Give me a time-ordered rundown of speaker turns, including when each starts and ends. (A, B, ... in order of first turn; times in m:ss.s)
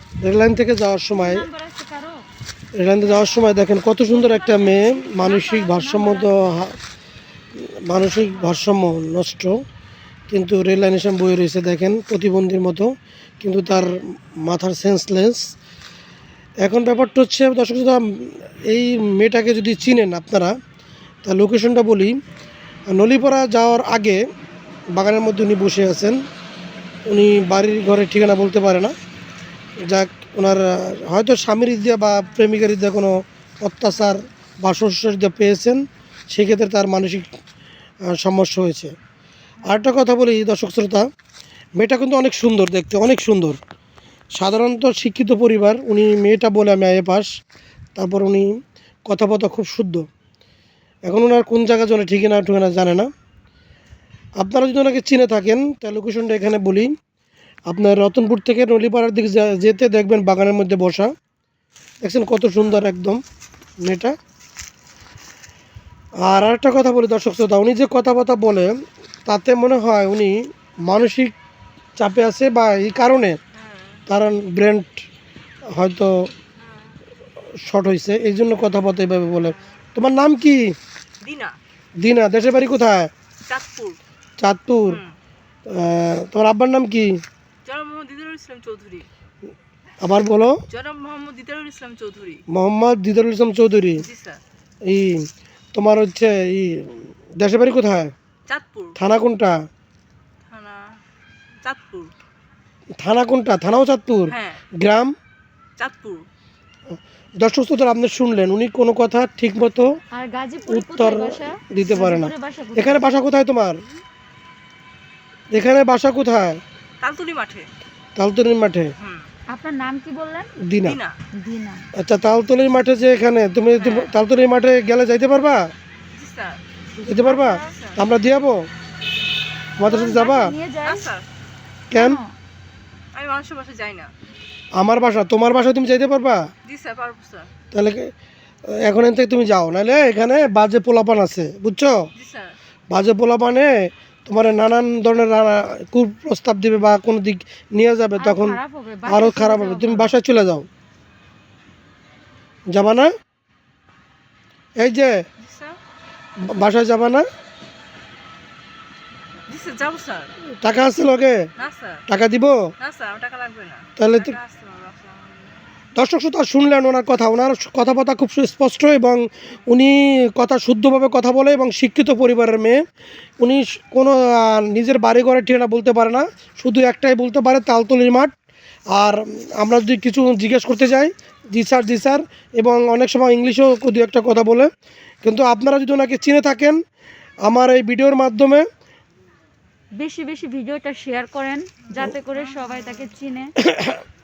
0:00.2-0:01.4 A
0:01.1-0:02.2 B
0:02.8-0:06.8 A
0:04.1-0:06.3 B
0:07.6-0:09.6 A
0:10.3-0:15.4 A
0:16.6-0:20.5 A
0:21.2-0:22.2 A
0:22.9-0:24.2 A
0:24.9-0:26.2 A
0:27.1-0:28.9 A
0:29.8-0:37.3 A
0:38.1-0:38.9 A
0:39.6-0:41.0 A
0:41.8-0:43.6 A
0:44.4-0:47.3 A
0:48.0-0:48.5 A
0:49.1-0:50.0 A
0:51.1-0:53.1 A
0:54.4-0:56.9 A
0:57.7-1:01.1 A
1:02.0-1:03.2 A
1:03.8-1:04.1 A
1:06.2-1:08.7 A
1:09.3-1:11.3 A
1:12.0-1:13.4 A
1:13.5-1:14.0 C
1:14.1-1:14.9 A
1:15.7-1:16.3 A
1:16.6-1:17.0 C
1:17.6-1:20.7 A
1:21.2-1:21.6 C
1:22.0-1:23.1 A
1:23.5-1:24.0 C
1:24.4-1:25.0 A
1:24.9-1:25.2 C
1:25.7-1:27.2 A
1:27.6-1:29.1 C
1:30.0-1:30.6 A
1:30.7-1:32.4 C
1:32.5-1:34.0 A
1:34.0-1:34.4 C
1:34.9-1:35.2 A
1:35.7-1:38.1 A
1:38.5-1:39.0 C
1:39.0-1:39.5 A
1:40.5-1:41.0 C
1:41.6-1:42.1 C
1:43.0-1:45.1 A
1:44.3-1:44.6 C
1:45.8-1:46.2 C
1:47.4-1:49.9 A
1:50.1-1:53.1 B
1:50.7-1:53.8 A
1:55.5-1:56.6 A
1:57.0-1:57.7 C
1:58.2-1:58.9 A
1:59.0-1:59.3 C
1:59.5-2:00.5 B
2:00.6-2:01.0 A
2:00.8-2:01.2 C
2:01.4-2:01.8 B
2:02.0-2:05.7 A
2:03.8-2:04.2 C
2:06.1-2:06.6 C
2:07.0-2:08.7 A
2:07.2-2:07.7 B
2:07.6-2:08.0 C
2:09.8-2:10.5 A
2:09.8-2:11.0 B
2:10.8-2:11.2 C
2:11.9-2:12.2 A
2:11.9-2:12.3 B
2:13.1-2:14.1 C
2:14.8-2:16.4 A
2:16.6-2:17.5 C
2:17.7-2:18.1 A
2:18.7-2:22.1 A
2:22.2-2:22.5 C
2:22.9-2:30.7 A
2:28.2-2:30.2 B
2:32.7-2:33.1 A
2:34.8-2:35.1 A
2:35.4-2:35.8 C
2:36.5-2:37.2 A
2:39.5-2:40.3 C
2:40.6-2:41.4 A
2:41.6-2:42.0 C
2:42.1-2:42.5 A
2:42.8-2:45.6 C
2:44.0-2:44.4 A
2:46.0-2:52.8 A
2:53.4-2:58.3 A
2:58.9-3:04.7 A
3:05.2-3:06.8 A
3:07.4-3:08.6 A
3:10.0-3:13.5 B
3:11.8-3:13.1 C
3:13.6-3:14.0 A